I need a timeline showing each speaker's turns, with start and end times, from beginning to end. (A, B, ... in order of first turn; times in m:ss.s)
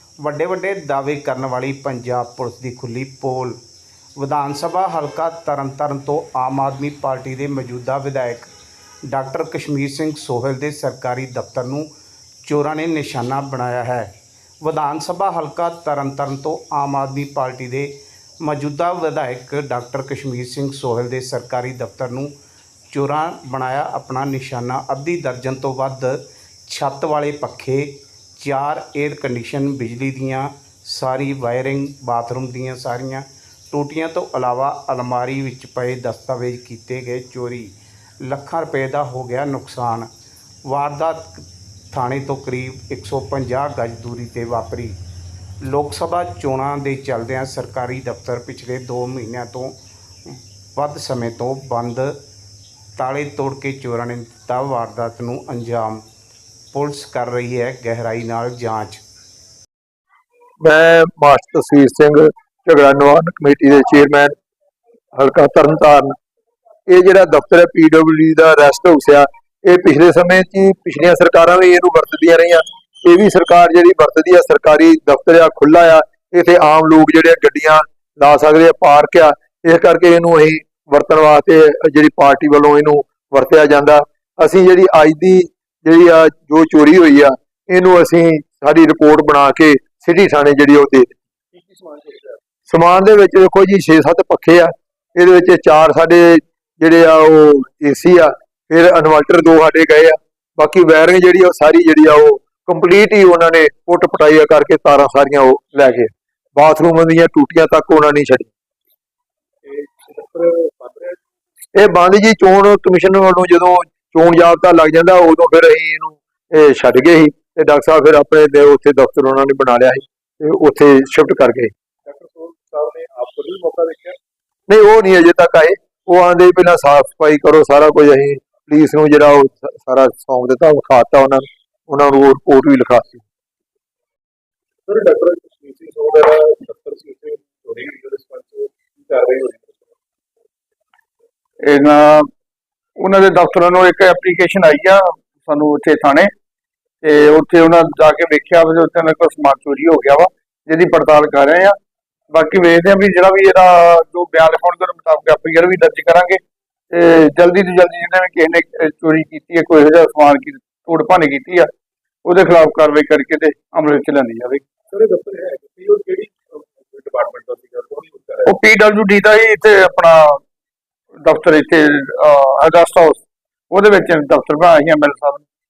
0:00.2-0:03.6 A
0:04.2-0:08.5 A
0:09.0-0:11.9 A
0:12.4-0:22.3 A
0:22.9-0:40.1 A
0:40.6-0:45.0 A
0:45.6-0:52.2 A
0:53.0-0:56.0 A
0:56.7-0:59.0 A
1:00.6-1:04.3 B
1:05.1-1:06.2 B
1:06.9-1:31.2 B
1:31.5-1:32.4 C
1:32.7-1:48.5 B
1:49.6-1:51.2 C
1:51.7-2:01.7 B
2:02.0-2:04.2 C
2:04.7-2:13.2 B
2:14.9-2:20.0 C
2:21.6-2:22.3 D
2:23.0-2:26.3 D
2:27.0-2:31.8 D
2:32.3-2:41.7 D
2:42.2-2:44.6 D
2:44.9-2:48.5 C
2:48.4-2:50.4 D
2:51.2-2:55.4 D